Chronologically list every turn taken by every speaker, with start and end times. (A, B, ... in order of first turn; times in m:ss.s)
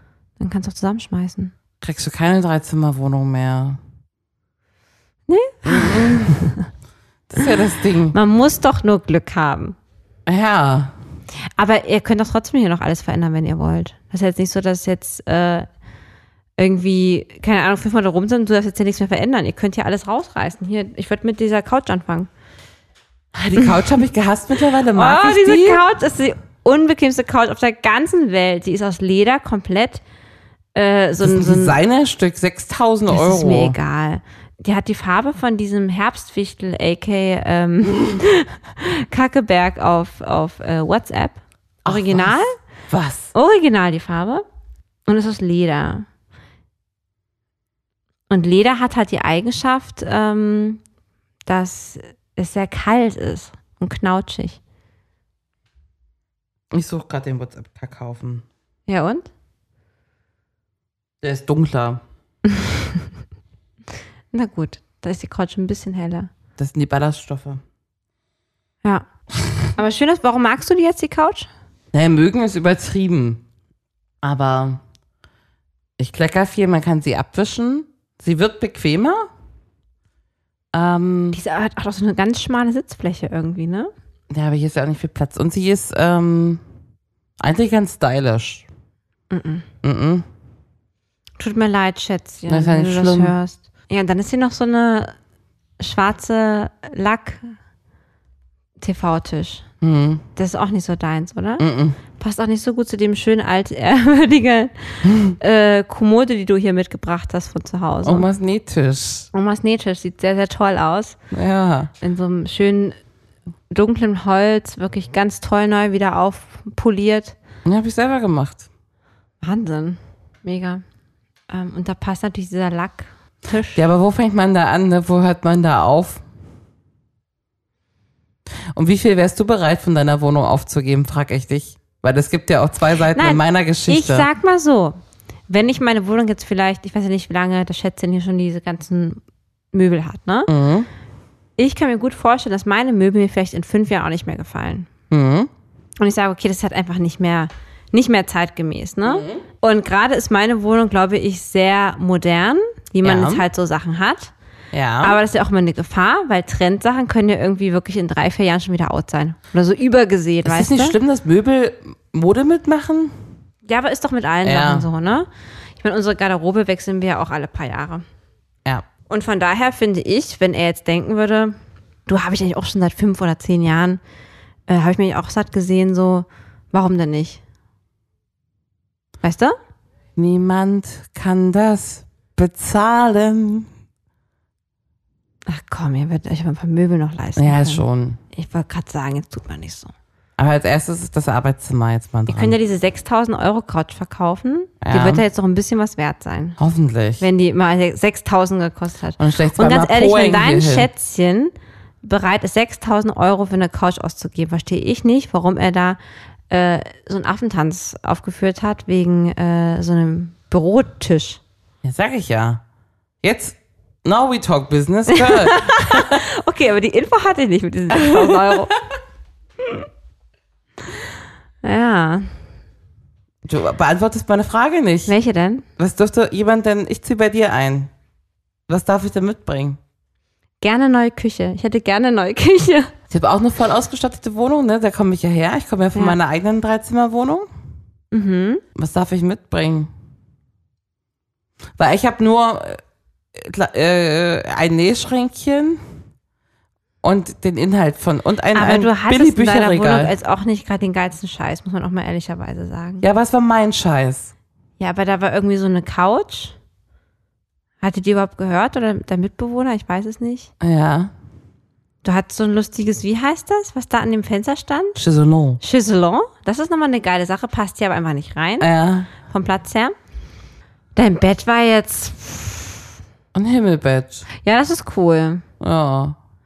0:00.4-0:01.5 A
0:01.8-0:03.8 B
0:05.3-0:06.6 A
0:05.6-0:06.5 B
0:07.3-0:08.2 B
0:08.1-0:09.8 A
0:10.3-0:10.9 B
0:11.6-0:15.7 A
0:16.6-0:22.3 A
0:23.3-0:25.8 B
0:24.9-0:30.0 A
0:30.7-0:31.8 A
0:31.2-0:33.8 B
0:33.1-0:42.6 A
0:41.8-0:42.4 B
0:42.9-0:43.3 B
0:43.3-0:44.4 A
0:45.1-0:46.0 A
0:48.3-0:50.8 A
0:51.4-0:54.6 A
0:56.7-0:58.4 B
0:58.9-0:59.3 A
1:01.2-1:02.0 B
1:02.5-1:03.0 A
1:04.3-1:06.3 A
1:06.6-1:07.6 B
1:09.8-1:11.5 A
1:11.9-1:13.4 B
1:14.2-1:14.8 B
1:16.0-1:19.3 B
1:20.7-1:21.4 B
1:21.3-1:23.9 A
1:24.3-1:26.6 B
1:27.4-1:28.7 B
1:29.3-1:29.6 A
1:29.8-1:30.2 B
1:31.4-1:35.1 A
1:32.5-1:33.3 B
1:35.8-1:37.5 A
1:38.8-1:39.6 A
1:39.8-1:40.2 B
1:40.4-1:41.6 A
1:41.6-1:42.0 B
1:42.2-1:48.3 A
1:45.0-1:45.4 B
1:48.0-1:49.3 B
1:49.3-1:51.2 A
1:51.3-1:51.9 B
1:52.0-1:53.0 A
1:53.7-1:57.4 A
1:57.6-1:58.7 B
1:59.4-2:00.8 A
2:01.5-2:03.8 A
2:03.7-2:06.2 B
2:08.7-2:14.3 B
2:13.1-2:15.0 A
2:15.5-2:19.2 A
2:19.7-2:20.5 A
2:20.5-2:20.9 B
2:21.6-2:24.9 A
2:25.1-2:25.5 B
2:26.0-2:34.3 A
2:29.0-2:29.4 B
2:33.0-2:33.4 B
2:34.7-2:35.2 B
2:35.0-2:41.0 A
2:40.4-2:43.1 B
2:43.6-2:45.3 A
2:44.4-2:44.8 B
2:45.8-2:48.0 A
2:49.1-2:51.5 A
2:52.1-2:54.0 A
2:54.7-2:57.4 A
2:59.2-2:59.6 A
3:00.2-3:03.7 B
3:05.5-3:09.9 A
3:07.4-3:08.2 B
3:10.4-3:12.5 B
3:12.3-3:16.6 A
3:14.8-3:15.2 B
3:16.6-3:17.2 B
3:17.2-3:26.0 A
3:19.2-3:20.9 B
3:26.5-3:31.4 A
3:31.8-3:32.6 B
3:33.2-3:36.2 B
3:35.1-3:38.8 A
3:38.0-3:38.5 B
3:41.6-3:42.3 A
3:43.4-3:45.1 B
3:45.1-3:45.6 A
3:45.8-3:47.9 B
3:48.7-3:49.8 B
3:50.6-3:52.9 A
3:53.1-3:57.5 B
3:58.1-3:58.6 A
3:58.7-3:59.9 B
4:01.8-4:02.8 B
4:03.3-4:05.8 B
4:07.0-4:10.1 B
4:08.5-4:13.0 A
4:13.0-4:14.3 B
4:14.8-4:16.5 A
4:17.8-4:20.5 A
4:20.6-4:21.1 B
4:22.0-4:25.0 A
4:25.0-4:25.6 B
4:25.6-4:29.9 A
4:28.6-4:29.1 B
4:31.0-4:32.8 A
4:33.3-4:34.2 B
4:34.4-4:35.4 A
4:35.6-4:36.2 B